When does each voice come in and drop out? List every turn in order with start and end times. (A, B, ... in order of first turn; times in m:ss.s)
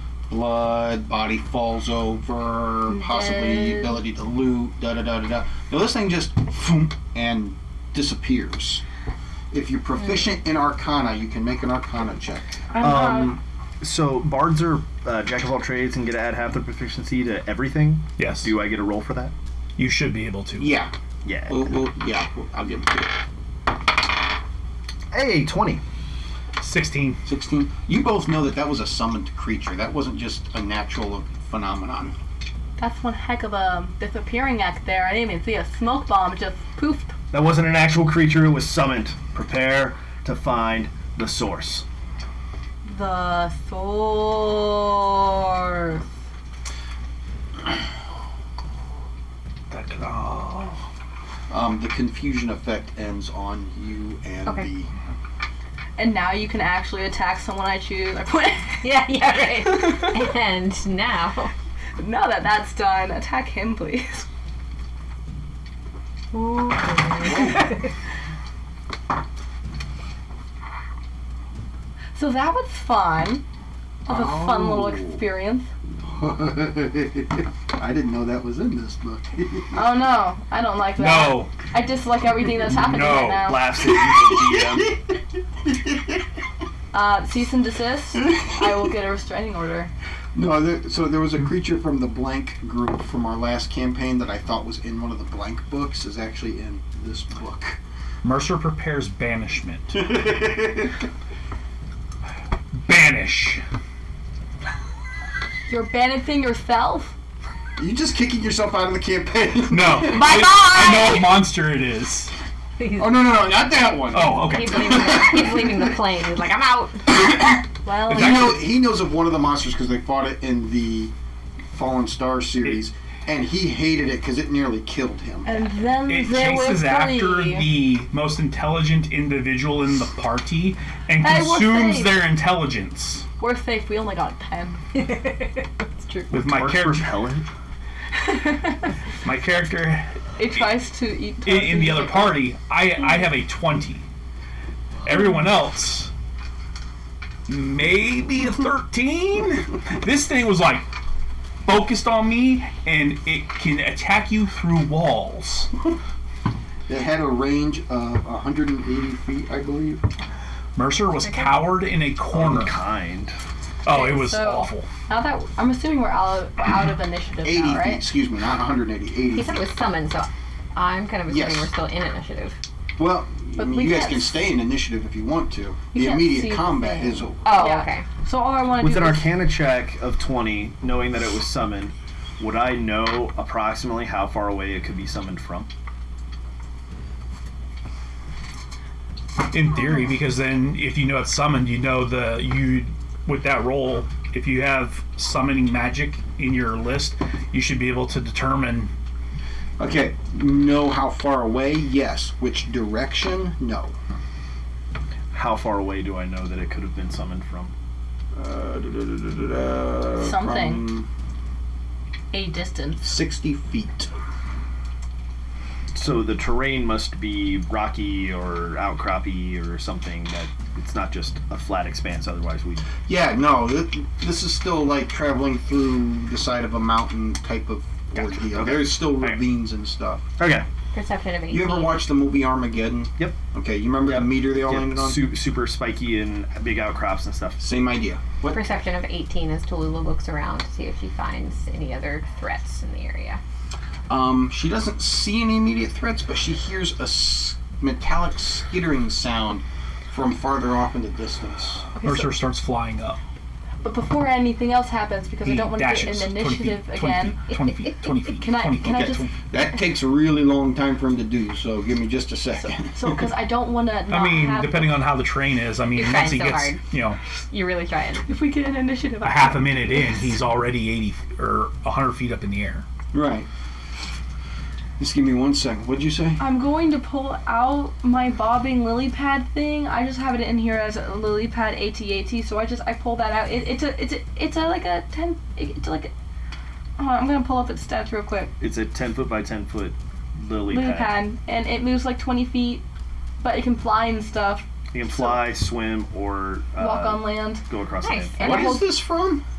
0:00.3-0:08.8 A
0:02.9-0:04.0 B
0:09.5-0:12.5 A
0:12.7-0:13.4 B
0:12.8-0:19.3 C
0:18.2-0:18.5 D
0:19.8-0:20.8 D
0:20.6-0:20.9 A
0:21.2-0:21.7 C
0:21.5-0:23.1 A
0:25.1-0:25.8 C
0:26.6-0:27.2 D
0:27.3-0:32.2 A
0:32.8-0:37.1 B
0:37.3-0:41.9 C
0:42.9-0:46.0 B
0:49.7-0:50.8 D
0:51.5-0:54.9 A
0:56.0-0:58.9 B
0:58.8-1:01.5 E
0:59.6-1:00.3 B
1:02.0-1:04.3 B
1:06.3-1:07.8 E
1:12.2-1:13.4 B
1:14.1-1:15.2 A
1:14.1-1:15.7 B
1:16.0-1:19.8 A
1:19.8-1:23.7 B
1:21.0-1:21.6 D
1:22.7-1:23.6 D
1:23.3-1:24.9 C
1:24.0-1:26.2 A
1:26.9-1:29.9 B
1:28.3-1:28.6 A
1:30.4-1:37.8 A
1:38.2-1:40.0 D
1:39.9-1:41.0 A
1:42.9-1:43.6 D
1:45.7-1:47.1 B
1:47.8-1:50.3 A
1:49.7-1:52.3 D
1:50.0-1:51.4 B
1:52.8-1:53.2 E
1:53.0-1:55.8 A
1:54.1-1:55.2 D
1:54.2-1:57.3 E
1:57.2-1:57.5 A
1:57.8-1:58.6 B
1:58.1-2:01.1 A
1:58.1-1:58.6 D
2:01.7-2:05.6 A
2:05.4-2:07.7 B
2:06.1-2:13.2 D
2:11.2-2:12.2 B
2:13.4-2:15.0 B
2:15.0-2:15.5 E
2:15.8-2:16.3 B
2:16.3-2:17.1 D
2:16.3-2:17.5 C
2:18.2-2:18.9 B
2:19.2-2:20.8 D
2:20.4-2:22.4 B
2:21.4-2:24.0 D
2:25.0-2:26.1 D
2:27.5-2:30.9 D
2:31.6-2:35.7 D
2:36.9-2:40.0 A
2:40.8-2:42.8 D
2:42.3-2:43.4 C
2:43.8-2:44.9 D
2:43.9-2:48.0 B
2:47.4-2:49.6 A
2:49.3-2:52.6 E
2:51.3-2:51.7 A
2:53.0-2:57.6 A
2:53.6-2:54.4 B
2:55.9-2:59.3 B
2:57.4-2:58.0 E
2:58.8-3:05.7 C
3:09.5-3:18.9 D
3:19.8-3:23.9 A
3:25.3-3:27.7 C
3:28.3-3:31.1 A
3:30.2-3:30.9 B
3:32.3-3:33.1 B
3:33.0-3:34.1 A
3:35.9-3:42.9 C
3:43.1-3:50.3 A
3:48.2-3:49.4 C
3:50.4-3:50.7 C
3:50.9-3:52.0 E
3:51.5-3:55.3 A
3:54.0-3:57.6 C
3:57.6-3:58.6 A
3:58.4-4:03.4 E
4:04.1-4:11.9 A
4:12.0-4:12.4 B
4:12.0-4:13.2 D
4:13.8-4:17.5 B
4:15.4-4:19.3 D
4:18.4-4:19.3 B
4:18.8-4:23.3 A
4:22.8-4:25.1 B
4:24.1-4:27.2 D
4:26.0-4:26.8 E
4:27.5-4:28.3 E
4:28.3-4:30.2 B
4:29.2-4:32.9 D
4:33.1-4:33.5 A
4:35.0-4:36.4 A
4:36.4-4:46.1 B
4:47.0-4:48.5 B
4:48.6-4:51.2 C
4:50.7-4:52.8 B
4:53.4-4:55.4 B
4:54.9-4:58.6 C
4:56.8-4:57.7 B
4:58.0-4:58.8 E
4:58.4-4:59.0 B
4:58.4-4:59.4 A